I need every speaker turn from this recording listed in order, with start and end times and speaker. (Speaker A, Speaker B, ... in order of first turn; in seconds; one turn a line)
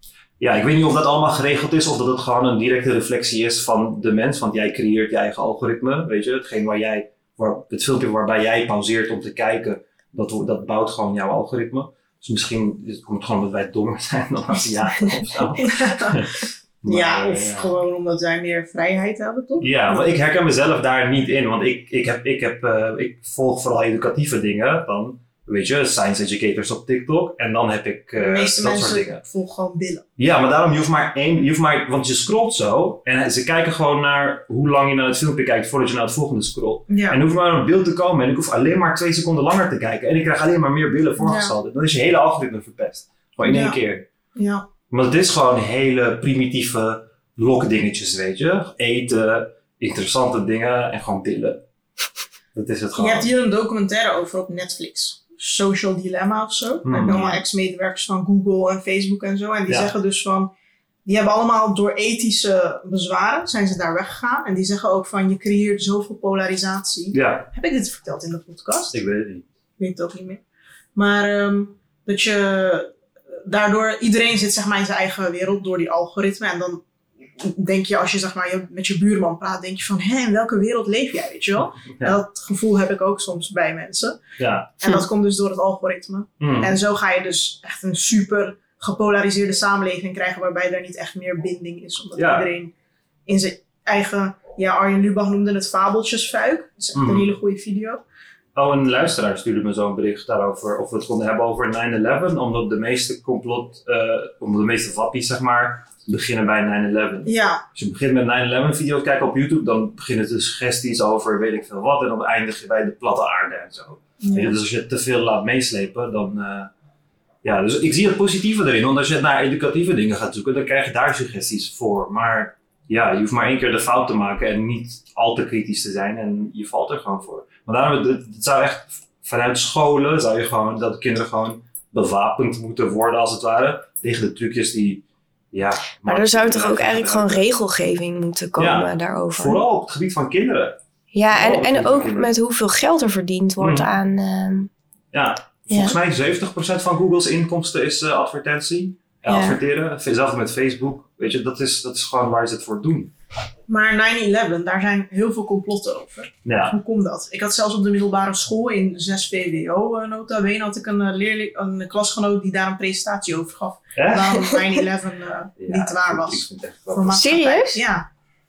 Speaker A: 0.4-17.7
Speaker B: 15.6-16.2
Speaker B: 16.9-20.0
Speaker A: 19.6-29.2
Speaker B: 28.2-30.0
Speaker A: 30.2-44.0
Speaker B: 36.9-37.2
Speaker B: 41.2-41.5
Speaker B: 43.4-43.8
Speaker B: 44.4-44.6
Speaker A: 44.9-51.6
Speaker A: 52.5-53.3
Speaker B: 53.0-60.5
Speaker A: 56.8-57.4
Speaker A: 59.7-59.9
Speaker B: 61.0-69.0
Speaker A: 67.1-67.5
Speaker A: 68.9-69.4
Speaker B: 69.8-70.4
Speaker B: 70.9-72.9
Speaker B: 73.4-76.8
Speaker B: 77.4-84.2
Speaker A: 81.6-82.2
Speaker A: 84.4-84.7
Speaker B: 84.8-92.7
Speaker A: 86.4-86.8
Speaker A: 92.2-92.5
Speaker B: 93.3-98.0
Speaker A: 96.9-97.3
Speaker A: 98.5-116.7
Speaker B: 107.2-107.6
Speaker B: 114.2-114.5
Speaker A: 117.4-137.4
Speaker C: 136.1-139.6
Speaker A: 138.6-142.3
Speaker C: 141.1-144.7
Speaker A: 143.6-143.9
Speaker A: 145.1-153.1
Speaker C: 145.7-146.0
Speaker C: 149.3-149.6
Speaker B: 153.7-168.1
Speaker A: 156.4-156.8
Speaker A: 163.9-164.5
Speaker A: 165.6-167.4
Speaker C: 167.1-167.8